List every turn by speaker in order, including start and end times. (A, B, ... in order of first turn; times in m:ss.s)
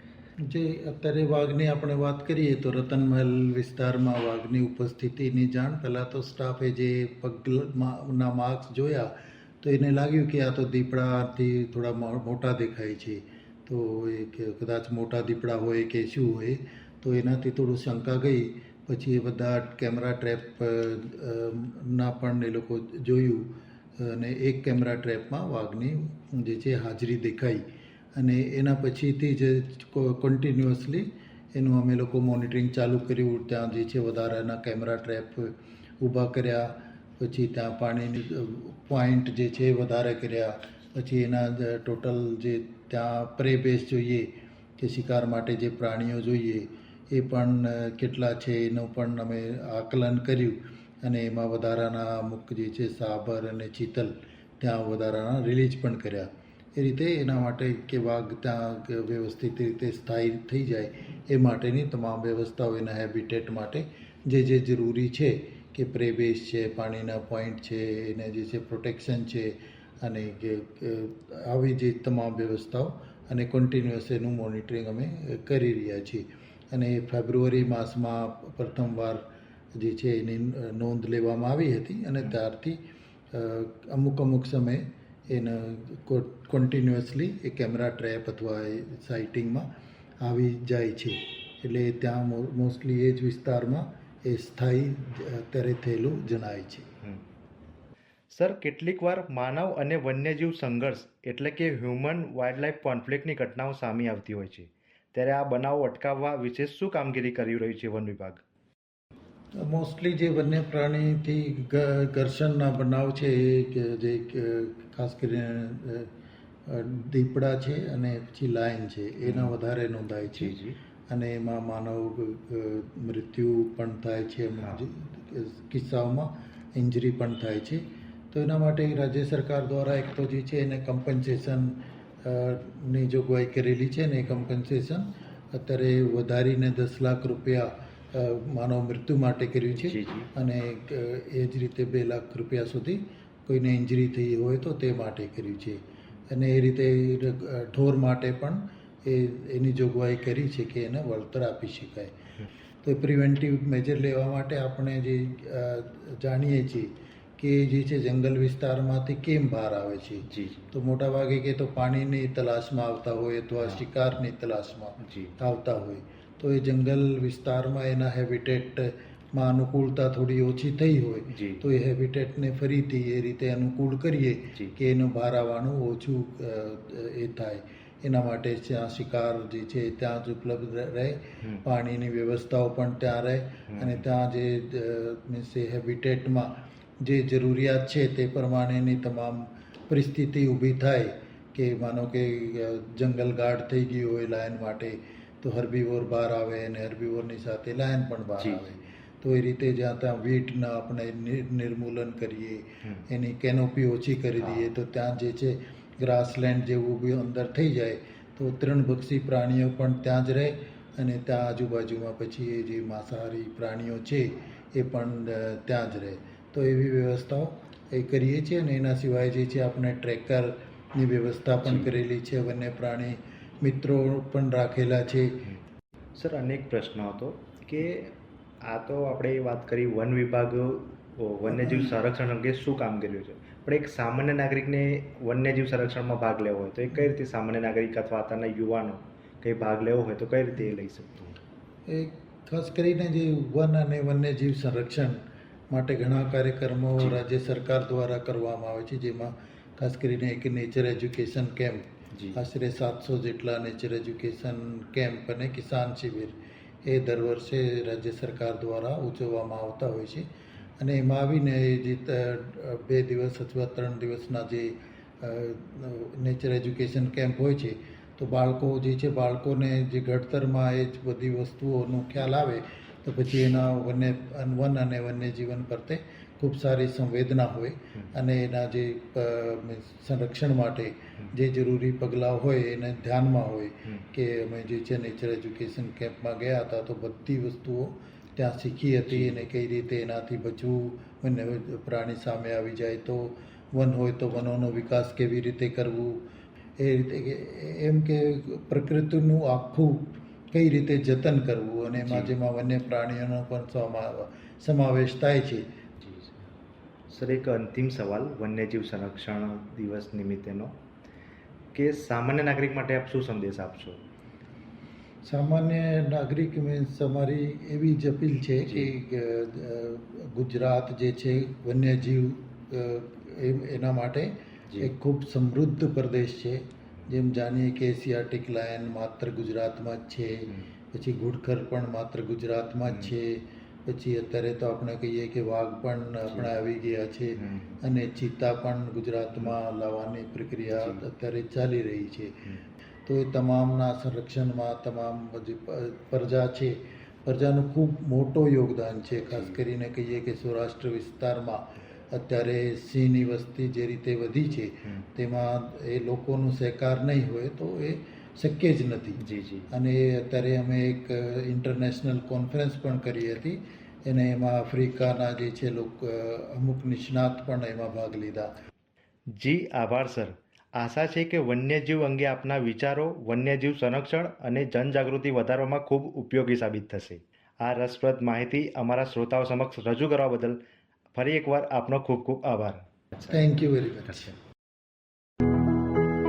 0:00.4-0:27.6 A
0:28.1-1:19.2 A
1:19.8-1:22.8 A
1:23.3-1:29.6 A
1:30.2-1:36.9 A
1:38.3-1:48.4 B
1:49.6-1:56.1 A
1:56.6-2:00.6 A
1:59.2-1:59.6 B
2:00.3-2:00.8 B
2:01.1-2:32.1 A
2:19.8-2:20.3 B
2:32.8-3:06.5 A
2:40.3-2:40.7 B
2:45.0-2:45.4 B
2:51.3-2:51.7 B
3:03.7-3:04.0 B
3:07.0-3:45.5 A
3:18.4-3:18.9 B
3:24.4-3:24.7 B
3:41.6-3:41.9 B
3:46.1-3:48.1 B
3:48.7-4:01.4 B
3:51.5-3:51.9 A
4:01.9-4:20.3 A
4:12.1-4:12.4 B
4:20.8-4:56.2 A
4:49.1-4:49.5 B
4:56.8-5:05.7 A
5:02.0-5:02.4 B
5:06.0-5:06.5 B
5:07.1-5:10.8 B
5:11.8-5:14.0 B
5:15.2-5:42.4 A
5:18.7-5:18.9 B
5:32.9-5:33.1 B
5:36.3-5:36.6 B
5:37.4-5:37.8 B
5:43.0-6:08.5 A
5:49.3-5:49.6 B
5:59.2-5:59.7 B
6:09.4-6:20.6 B
6:21.1-6:23.4 B
6:23.3-6:24.4 A